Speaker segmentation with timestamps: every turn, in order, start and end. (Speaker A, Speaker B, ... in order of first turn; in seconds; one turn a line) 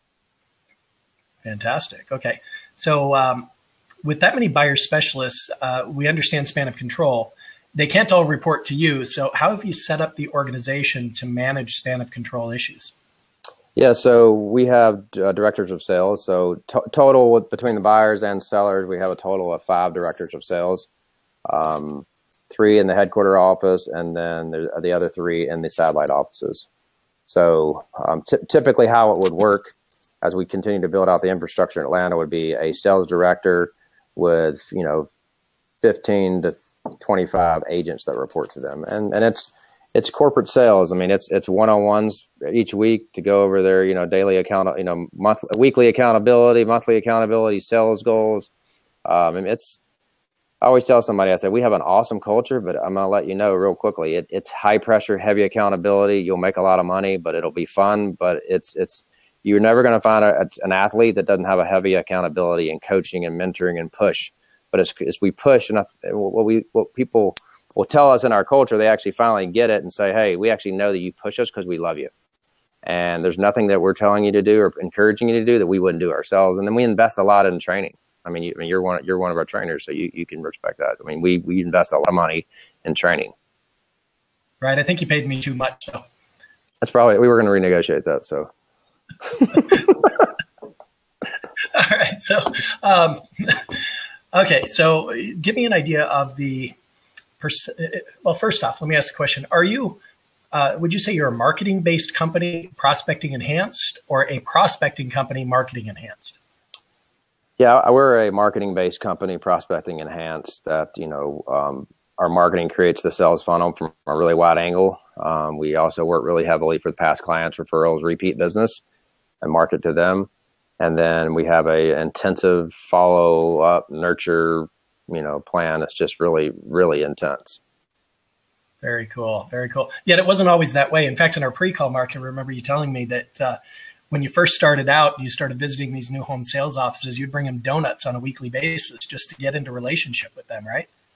Speaker A: 1.4-3.5
Speaker A: 4.0-12.9
Speaker B: 13.8-20.9
Speaker B: 21.5-26.7
Speaker B: 27.3-35.1
Speaker B: 35.8-48.5
Speaker B: 49.1-49.8
Speaker B: 50.6-72.1
Speaker B: 72.8-83.3
Speaker A: 84.6-86.0
Speaker B: 86.8-88.5
Speaker B: 89.4-89.8
Speaker A: 91.7-93.8
Speaker A: 94.3-96.8
Speaker A: 97.4-100.0
Speaker A: 100.5-106.4
Speaker B: 107.6-118.8
Speaker B: 119.4-120.3
Speaker B: 120.8-127.6
Speaker A: 128.8-133.6
Speaker A: 134.1-140.9